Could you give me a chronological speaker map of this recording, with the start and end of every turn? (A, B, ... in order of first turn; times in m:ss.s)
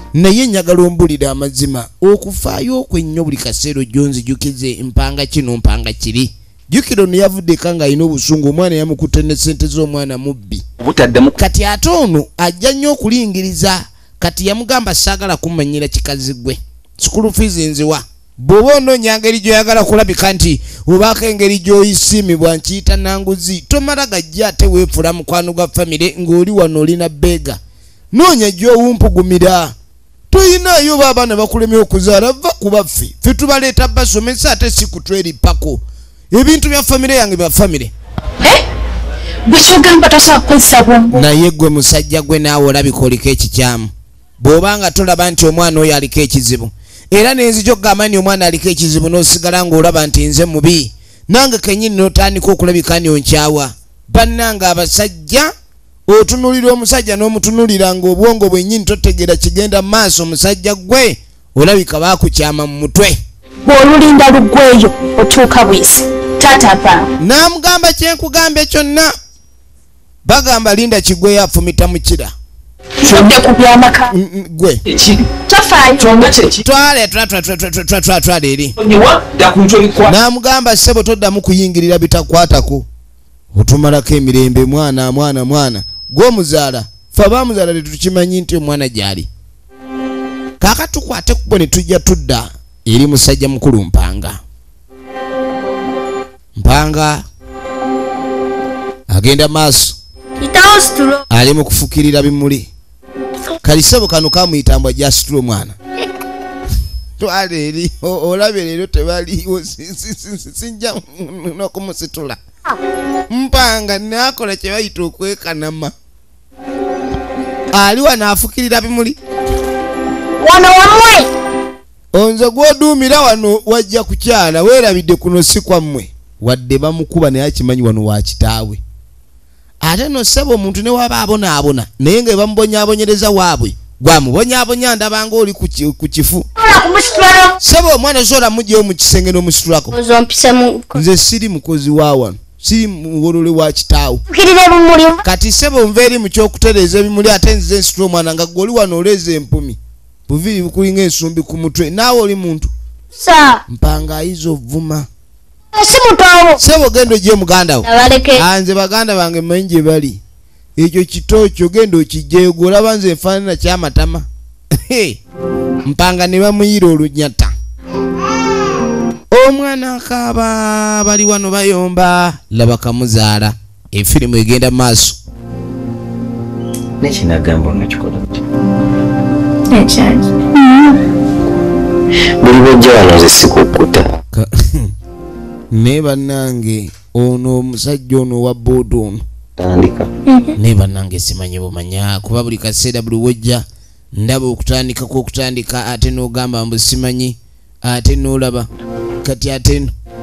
0:00.2-0:10.6 A
0:10.8-0:11.4 B
0:11.4-0:27.6 A
0:28.1-0:29.8 A
0:30.3-0:37.9 A
0:39.5-0:41.2 C
0:41.1-0:55.5 A
0:56.1-1:03.2 A
1:03.6-1:07.1 C
1:07.2-1:09.1 A
1:10.2-1:12.3 A
1:13.0-1:14.1 C
1:14.1-1:14.8 A
1:14.9-1:15.3 B
1:15.5-1:16.3 C
1:16.0-1:16.6 B
1:16.6-1:18.8 A
1:18.8-1:20.2 B
1:20.1-1:22.9 A
1:23.5-1:29.3 A
1:30.6-1:34.4 A
1:36.6-1:37.2 A
1:39.1-1:40.0 A
1:40.4-1:41.2 D
1:41.3-1:42.7 A
1:43.6-1:45.8 A
1:47.2-1:52.4 A
1:53.3-1:55.9 A
1:57.7-1:59.2 A
2:00.4-2:01.3 D
2:02.1-2:08.8 A
2:09.8-2:16.5 A
2:16.6-2:17.6 D
2:17.6-2:20.0 A
2:19.9-2:21.0 D
2:20.9-2:24.2 A
2:24.3-2:25.2 D
2:25.2-2:32.7 A
2:33.2-2:33.6 D
2:33.7-2:35.1 A
2:35.7-2:36.6 D
2:36.6-2:40.2 A
2:37.8-2:38.4 D
2:40.8-2:45.2 A
2:45.8-2:47.5 A
2:49.3-2:55.2 A
2:57.0-2:58.4 E
2:59.7-3:00.2 C
3:00.6-3:00.9 D
3:02.4-3:04.2 E
3:04.3-3:04.9 A
3:05.7-3:09.2 A
3:09.6-3:10.1 E
3:10.3-3:10.5 D
3:10.6-3:18.7 A
3:19.2-3:19.9 A